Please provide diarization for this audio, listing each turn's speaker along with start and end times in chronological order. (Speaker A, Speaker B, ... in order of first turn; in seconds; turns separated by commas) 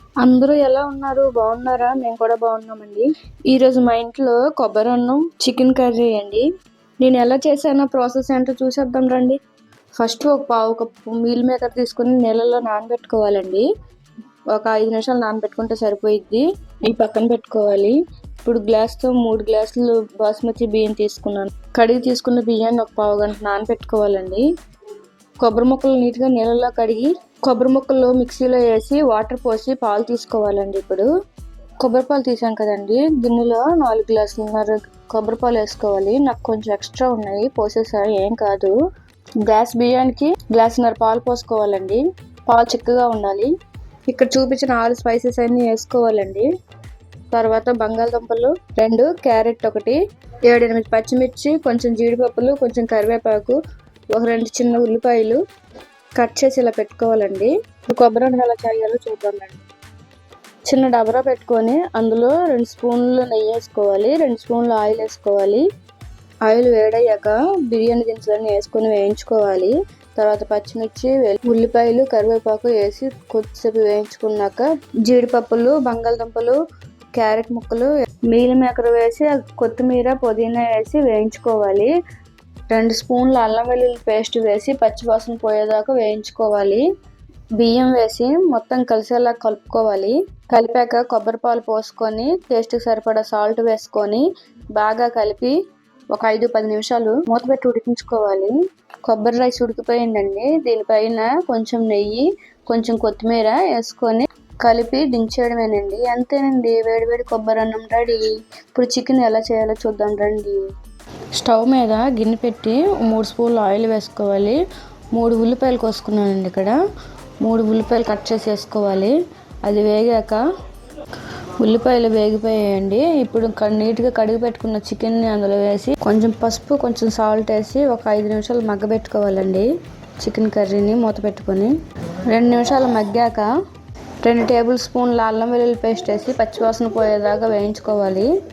Speaker A: 0.2-6.5, Speaker A: 7.0-9.4, Speaker A: 10.0-13.7, Speaker A: 14.5-24.5, Speaker A: 25.4-31.1, Speaker A: 31.8-38.7, Speaker A: 39.5-43.5, Speaker A: 44.1-46.5, Speaker A: 47.3-53.6, Speaker A: 54.1-55.4, Speaker A: 56.1-59.6, Speaker A: 60.6-65.6, Speaker A: 66.4-76.6, Speaker A: 77.1-81.9, Speaker A: 82.7-86.8, Speaker A: 87.6-95.6, Speaker A: 96.1-98.5, Speaker A: 99.1-110.6, Speaker A: 111.4-114.6, Speaker A: 115.1-116.8, Speaker A: 117.4-119.1, Speaker A: 119.6-120.4, Speaker A: 121.6-129.7, Speaker A: 130.2-131.7, Speaker A: 132.3-133.5, Speaker A: 134.2-138.3